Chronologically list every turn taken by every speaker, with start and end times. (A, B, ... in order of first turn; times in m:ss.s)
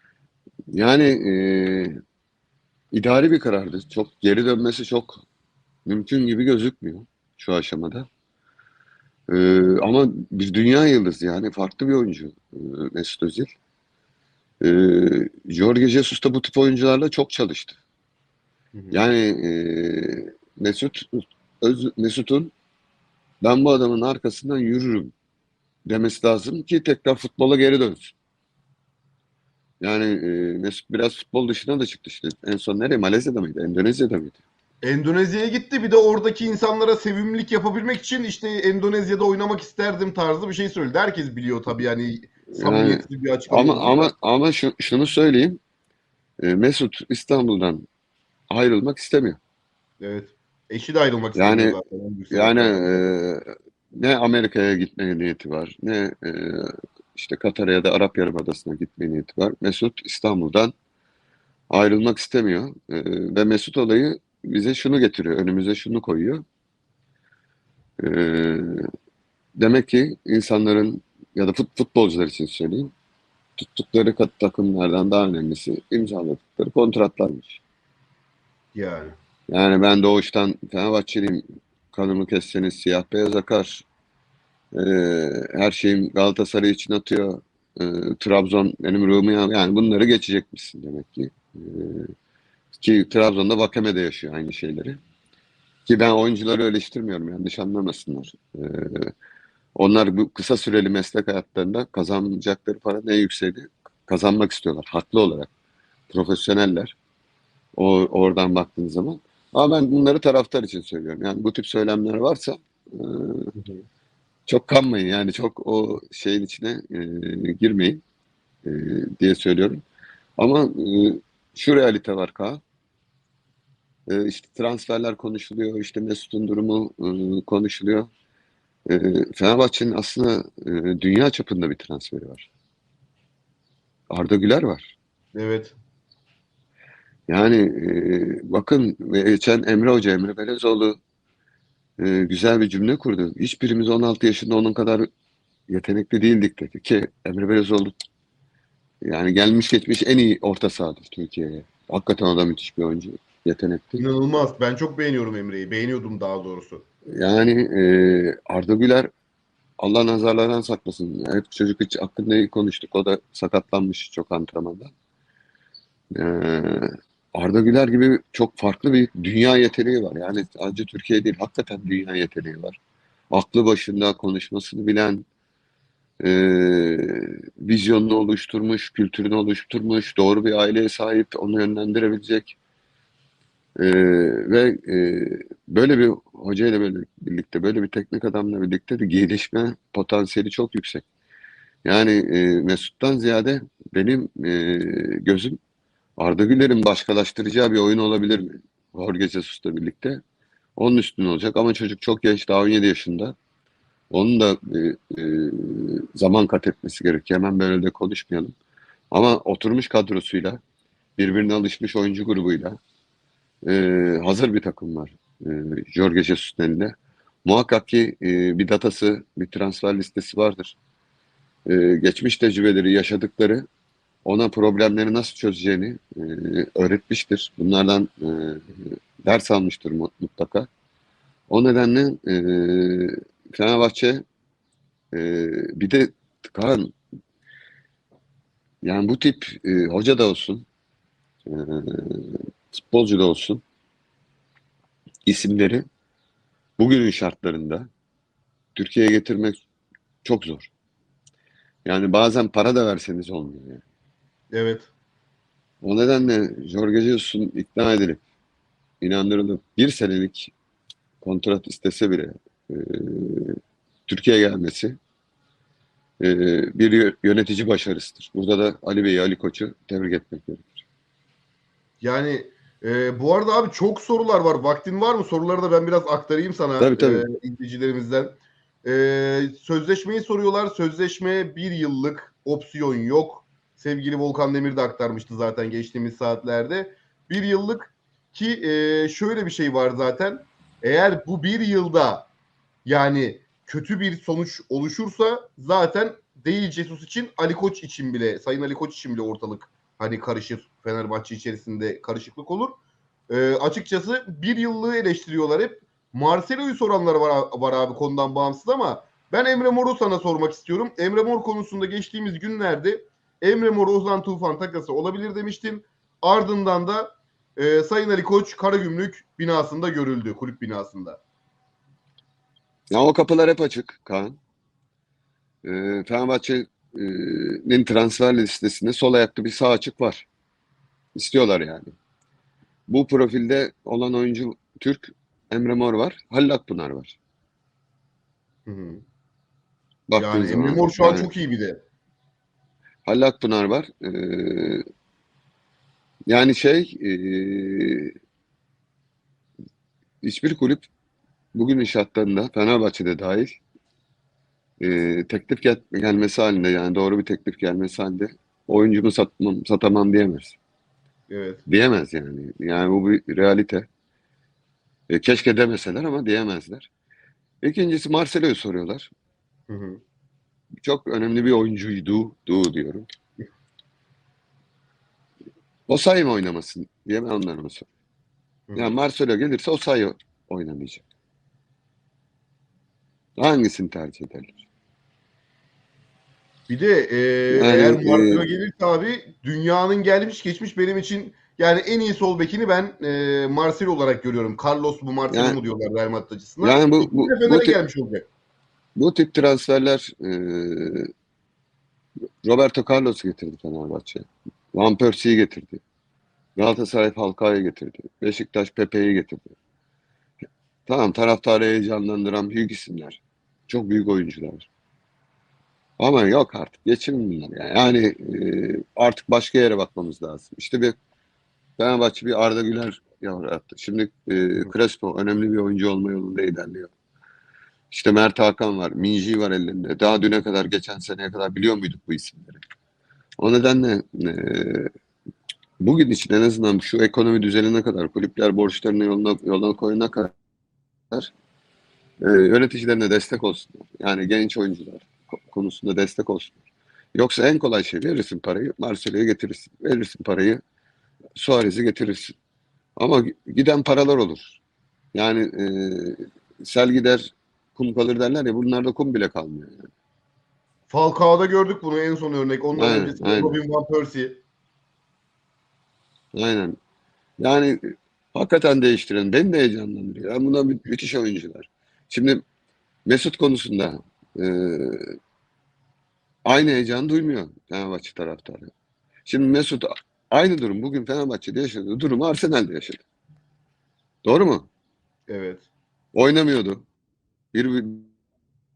0:00.7-0:02.0 A
0:02.9-0:05.2 A
0:05.8-0:08.1 A
0:09.3-0:13.5 A
0:14.6-0:17.8 A
0:18.7-0:19.0 B
0:18.9-0:22.5 A
0:23.4-0:25.1 A
0:25.8-0:28.1 A
0:29.8-0:34.4 A
0:34.8-0:44.1 B
0:42.5-0:45.6 A
0:46.4-0:47.8 A
0:48.5-0:49.4 A
0:50.0-0:53.0 B
0:51.3-0:51.8 A
0:52.3-1:00.7 A
1:01.7-1:06.4 A
1:08.0-1:08.8 A
1:09.6-1:12.9 A
1:13.6-1:17.6 A
1:18.7-1:19.2 B
1:19.5-1:23.8 A
1:24.7-1:32.1 A
1:32.8-1:35.0 A
1:35.8-1:39.1 A
1:39.8-1:45.5 A
1:46.1-1:46.9 A
1:47.8-1:53.5 A
1:53.6-1:53.8 B
1:54.5-1:58.0 A
1:58.6-1:59.8 A
2:00.4-2:02.6 A
2:04.1-2:08.1 A
2:08.9-2:12.5 A
2:14.1-2:14.9 A
2:15.3-2:15.7 B
2:17.3-2:21.0 A
2:22.0-2:25.1 A
2:25.7-2:27.9 A
2:29.0-2:34.0 A
2:34.0-2:36.8 B
2:37.1-2:39.1 A
2:39.8-2:44.9 A
2:46.1-2:52.8 A
2:53.3-2:55.2 A
2:56.2-3:02.6 A
3:03.8-3:11.0 A
3:11.8-3:15.6 A
3:16.2-3:20.2 A
3:20.8-3:23.3 A
3:24.1-3:28.5 A
3:29.1-3:30.6 A
3:31.2-3:32.8 A
3:33.6-3:36.9 A
3:37.4-3:40.8 A
3:41.6-3:43.6 A
3:44.2-3:50.7 A
3:51.5-3:54.2 A
3:55.1-3:56.9 A
3:58.8-4:00.6 A
4:01.5-4:03.6 A
4:05.2-4:05.8 A
4:06.8-4:07.9 A
4:08.7-4:09.6 A
4:10.2-4:10.7 A
4:11.8-4:13.8 A
4:14.5-4:14.9 B
4:15.8-4:18.2 A
4:19.0-4:20.5 A
4:21.2-4:25.0 A
4:26.2-4:30.8 A
4:32.0-4:52.3 B
4:36.8-4:37.2 A
4:52.8-5:02.8 B
5:03.3-5:21.2 B
5:22.9-5:24.4 A
5:25.6-5:30.3 A
5:31.1-5:31.9 A
5:32.9-5:37.2 A
5:38.6-5:39.0 B
5:40.1-5:41.3 A
5:40.1-5:41.8 B
5:43.0-5:44.8 A
5:46.3-5:48.1 A
5:50.2-5:50.9 A
5:51.5-5:53.6 A
5:54.8-6:00.6 A
6:01.3-6:01.6 B
6:01.7-6:03.9 A
6:05.1-6:06.9 A
6:07.6-6:09.1 A
6:09.7-6:10.0 B
6:10.8-6:13.0 A
6:15.9-6:17.9 A
6:18.7-6:19.0 B
6:18.7-6:21.0 A
6:23.4-6:24.6 A
6:26.7-6:38.2 B
6:27.5-6:28.4 A
6:35.3-6:35.6 A
6:36.6-6:37.8 A
6:39.0-6:41.1 A
6:42.4-6:45.8 A
6:46.6-6:49.5 A
6:50.9-6:54.7 A
6:56.0-7:00.9 A
7:01.8-7:06.9 A
7:07.9-7:12.6 A
7:13.4-7:14.9 A
7:15.8-7:20.3 A
7:22.2-7:30.6 A
7:31.4-7:32.3 A
7:33.0-7:34.6 A
7:35.1-7:39.9 A
7:40.9-7:44.4 B
7:42.8-7:43.5 A
7:46.3-7:46.8 A
7:47.4-7:52.4 A
7:53.0-7:55.0 A
7:56.4-7:58.7 A
7:59.2-8:03.0 A
8:04.2-8:04.7 A
8:05.3-8:05.6 B
8:06.1-8:06.8 A
8:07.5-8:08.1 A